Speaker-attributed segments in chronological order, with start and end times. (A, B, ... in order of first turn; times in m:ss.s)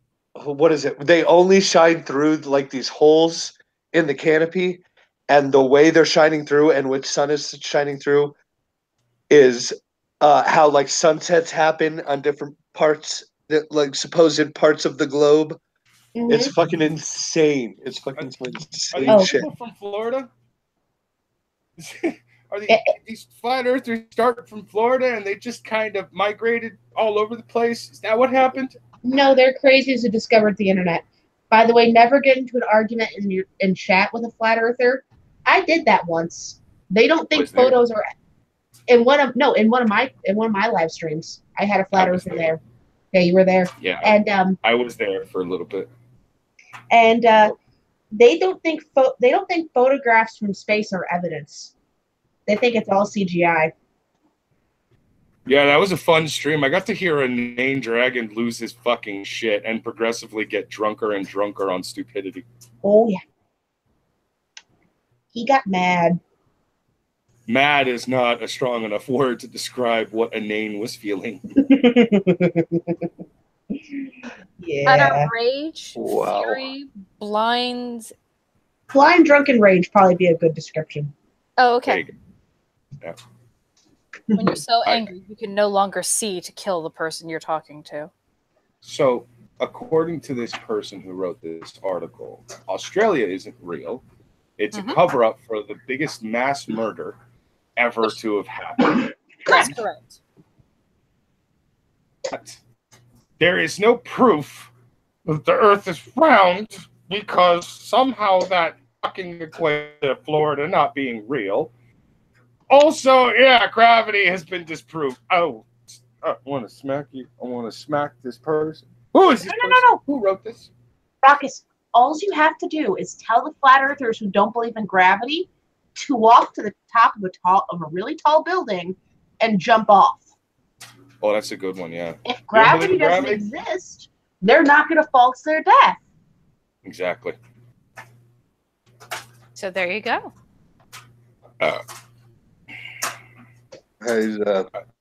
0:00.4-0:08.4 A
0:09.3-0:15.6 A
0:16.2-0:16.5 B
0:16.3-0:19.5 A
0:18.9-0:20.3 C
0:19.1-0:19.4 B
0:21.8-0:28.8 C
0:29.0-0:38.1 B
0:37.3-0:37.8 C
0:38.9-0:42.6 B
0:41.9-0:42.5 C
0:43.1-0:44.6 B
0:43.8-0:45.9 C
0:46.9-0:47.6 B
0:48.1-0:51.7 B
0:52.5-0:53.7 B
0:55.5-1:02.4 C
1:02.8-1:03.2 B
1:05.3-1:06.2 B
1:07.5-1:11.4 C
1:11.6-1:13.1 B
1:14.6-1:15.3 B
1:14.8-1:18.1 D
1:16.0-1:16.7 A
1:18.9-1:21.1 B
1:21.6-1:22.0 D
1:21.9-1:22.2 C
1:24.3-1:28.1 D
1:28.8-1:34.0 C
1:34.6-1:37.2 C
1:34.7-1:35.0 D
1:37.8-1:39.8 C
1:39.5-1:40.2 D
1:42.3-1:42.6 C
1:43.4-1:44.7 C
1:45.3-1:51.7 C
1:52.7-2:00.7 C
1:59.4-2:00.0 B
2:01.2-2:10.3 B
2:11.2-2:13.4 C
2:12.3-2:16.0 B
2:16.8-2:17.4 C
2:19.6-2:20.3 D
2:24.0-2:24.7 A